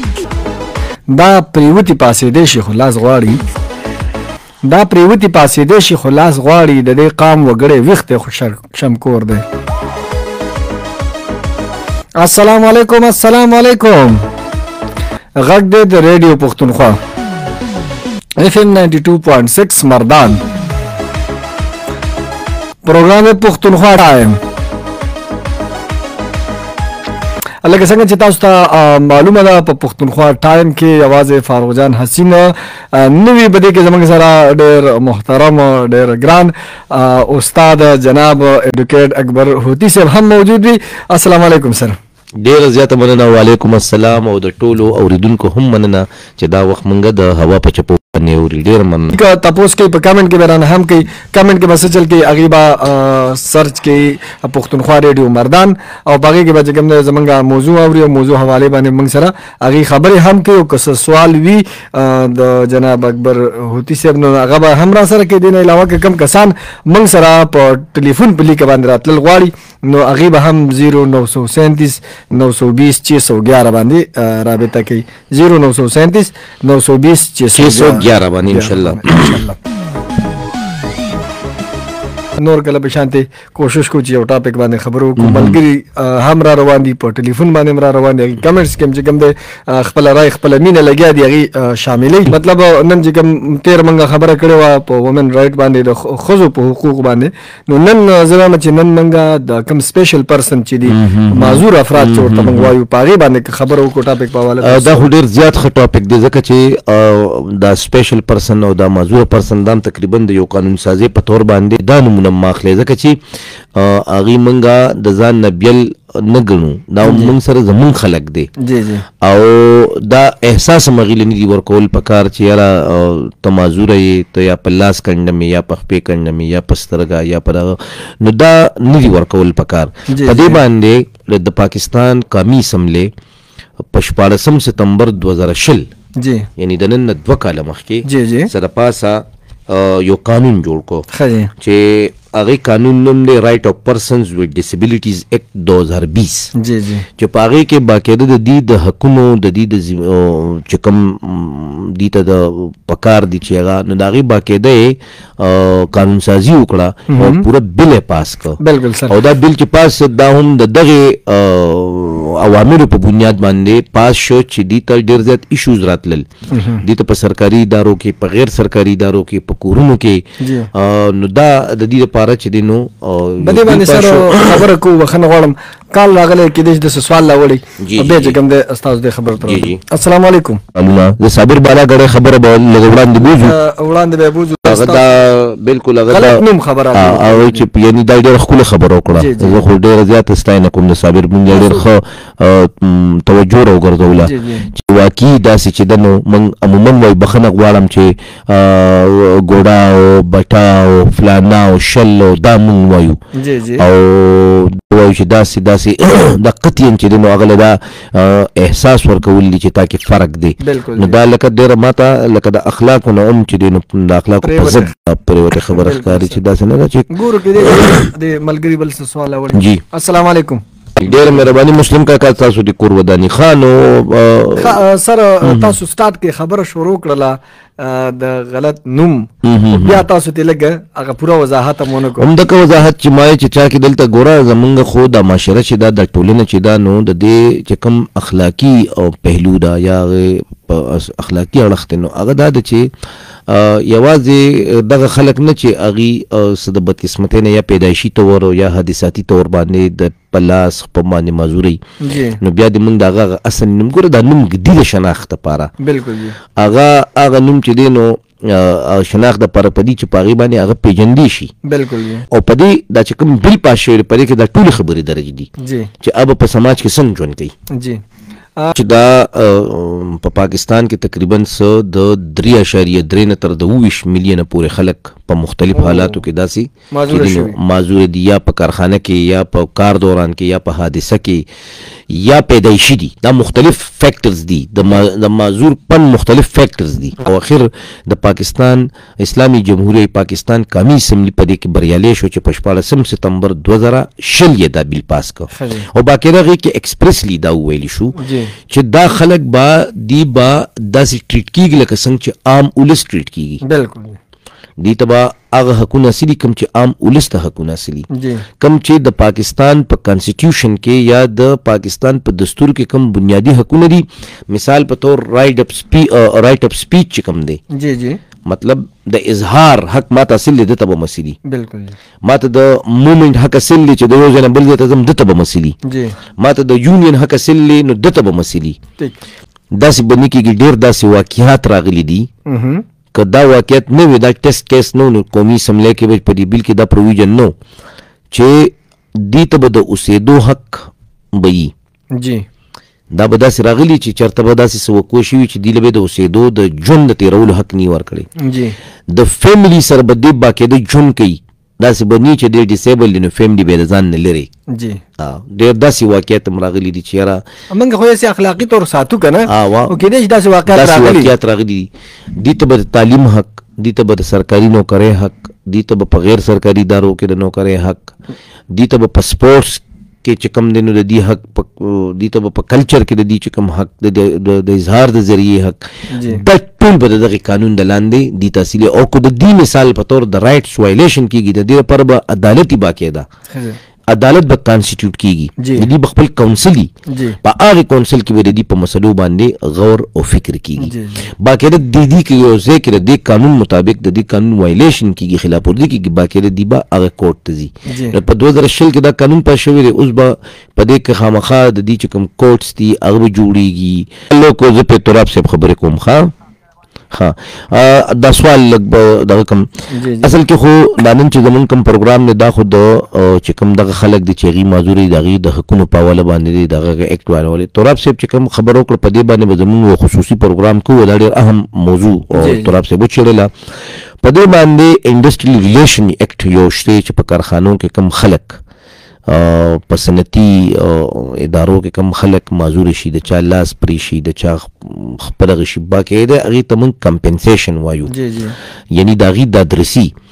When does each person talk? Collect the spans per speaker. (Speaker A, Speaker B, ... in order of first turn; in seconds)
Speaker A: 1.1-3.4, 4.6-9.4, 12.2-14.2, 15.4-17.0, 18.4-20.4, 22.8-24.4, 27.6-42.0, 49.1-79.6, 82.4-105.1, 117.0-117.3, 118.6-119.0, 130.1-130.6, 136.2-136.5, 138.0-138.5, 141.1-141.5, 146.5-147.1, 157.1-157.4, 158.6-159.2, 166.5-166.8, 170.4-170.7, 173.4-180.6, 183.2-185.2, 186.1-187.6, 189.1-189.6, 191.5-191.8, 194.2-194.7, 203.3-203.8, 210.6-211.2, 214.4-214.9, 215.7-216.4, 217.1-221.2, 224.6-232.3, 252.0-252.4, 255.8-256.4, 261.6-262.2, 265.6-265.9, 267.7-268.0, 275.7-276.2, 276.9-277.6, 295.5-295.9, 298.2-298.5, 303.6-304.2, 308.1-308.4, 317.7-318.2, 321.4-321.9, 325.8-326.1, 332.5-332.8, 342.1-342.4, 348.4-348.8, 354.7-355.0, 357.7-361.3, 376.1-376.4, 383.5-383.8, 385.6-385.9, 387.1-387.4, 390.8-391.3, 397.9-398.2, 409.9-410.3, 422.3-422.7, 438.1-438.6
Speaker B: 42.4-49.2, 77.5-79.4, 85.2-85.6, 100.9-102.7, 104.6-113.2, 113.7-118.5, 119.2-133.1, 133.9-135.9, 136.6-141.1, 141.6-146.5, 147.2-166.2, 166.8-170.2, 170.7-174.7, 177.8-178.4, 179.4-179.8, 180.7-183.6, 184.6-186.4, 186.9-203.2, 203.8-218.1, 219.5-219.8, 220.9-224.8, 225.4-225.8, 229.4-230.1, 232.2-242.9, 243.5-251.8, 252.4-255.7, 256.6-261.5, 262.3-265.5, 266.0-267.5, 268.7-281.5, 282.1-298.1, 298.7-303.6, 304.8-308.1, 308.6-317.6, 318.5-321.4, 322.2-325.8, 326.4-328.8, 329.7-332.3, 333.1-337.5, 338.3-341.7, 343.1-348.3, 349.1-354.5, 355.2-357.4, 359.5-359.9, 360.7-368.1, 368.7-383.2, 384.1-386.9, 387.4-406.3, 407.1-409.7, 410.2-423.5, 424.2-428.6, 429.3-438.1, 438.9-440.1